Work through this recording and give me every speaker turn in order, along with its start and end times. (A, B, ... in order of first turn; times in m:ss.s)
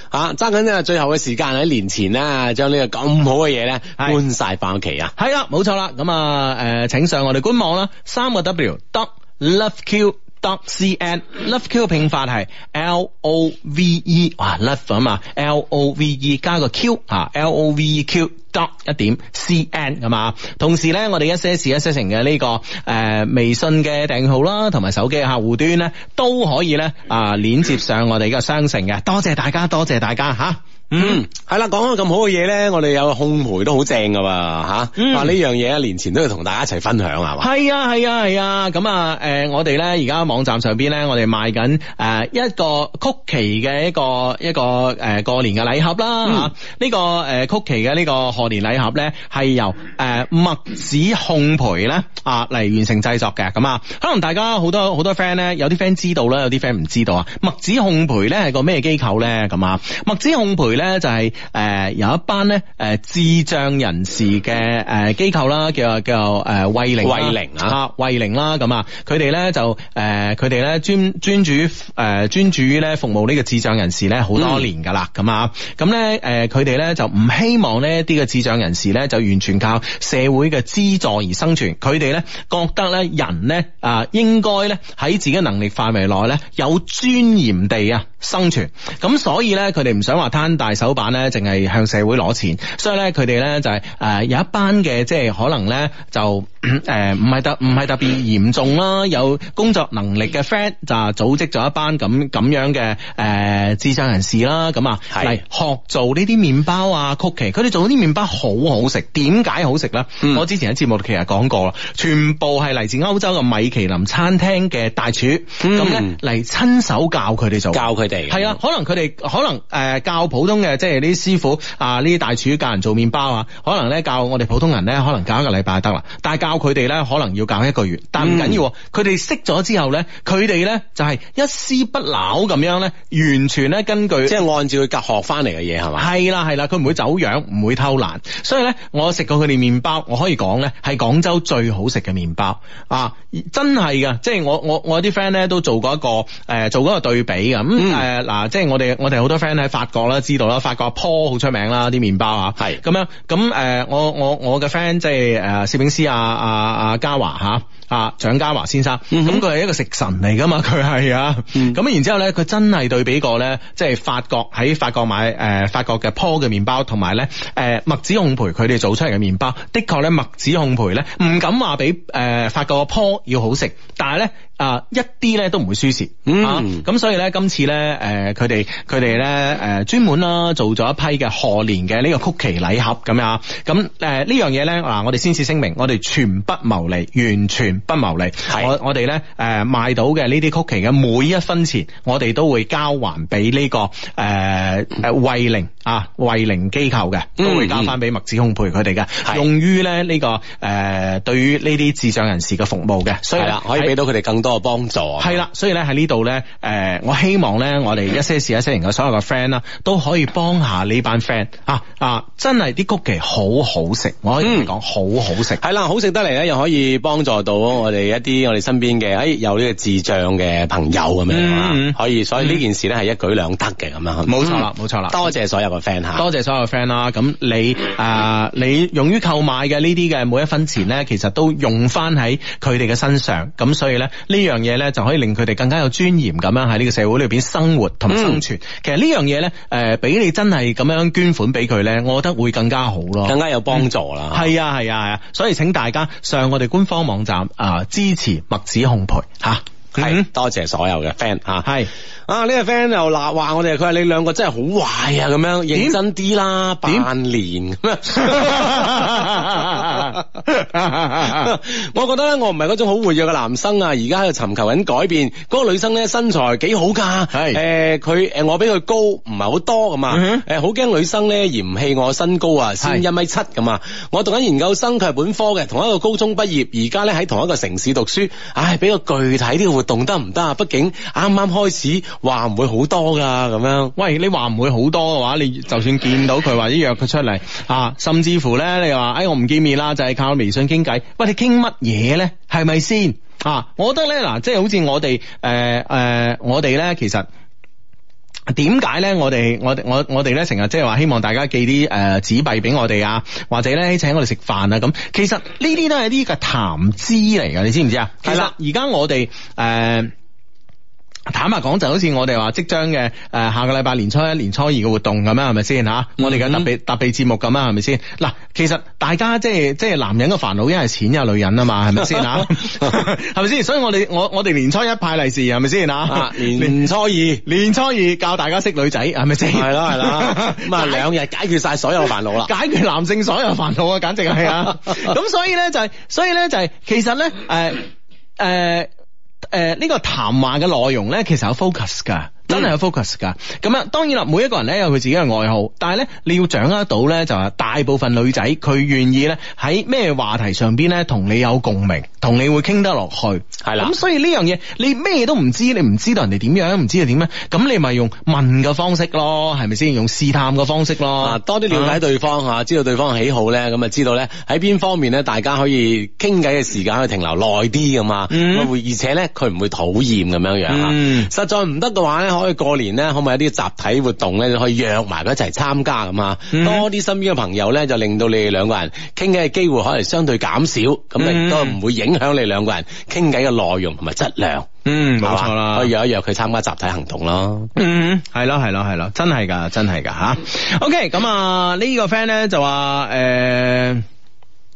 0:00.1-0:05.1 A
0:05.2-0:31.2 B
0:31.0-0:37.4 A
0:35.0-0:35.3 B
0:37.4-2:14.4 B
1:07.0-1:07.8 A
1:14.4-1:14.6 A
1:45.1-1:45.4 A
1:55.6-1:56.2 A
1:57.7-1:58.6 A
2:08.2-2:08.6 A
2:14.3-2:16.1 A
2:16.0-3:23.9 B
2:27.8-2:28.0 A
2:39.1-2:39.4 A
2:56.3-2:56.8 A
3:08.5-3:08.7 A
3:17.4-3:18.0 A
3:23.4-3:25.4 A
3:25.2-3:35.6 B
3:34.4-3:34.7 A
3:35.6-3:46.2 A
3:41.3-3:42.6 B
3:44.3-3:45.3 B
3:46.2-4:10.3 B
3:58.1-3:58.4 A
4:03.3-4:04.5 A
4:10.0-4:11.7 A
4:11.6-4:11.9 B
4:12.3-4:20.2 A
4:18.2-4:21.6 B
4:21.2-4:43.9 A
4:27.3-4:27.6 B
4:30.1-4:30.4 B
4:44.0-4:57.3 B
4:58.5-5:10.1 B
5:08.2-5:08.5 A
5:11.3-5:26.8 B
5:16.2-5:16.7 A
5:22.0-5:22.9 A
5:26.1-5:27.4 A
5:27.4-5:31.0 B
5:29.5-5:32.5 A
5:32.4-5:37.9 B
5:38.4-5:38.9 B
5:39.5-6:02.0 B
5:53.6-5:53.9 A
6:01.2-6:24.7 A
6:08.3-6:08.7 B
6:10.7-6:11.3 B
6:16.5-6:16.9 B
6:21.2-6:21.8 B
6:24.9-6:25.9 B
6:25.2-6:27.7 A
6:27.8-6:34.0 B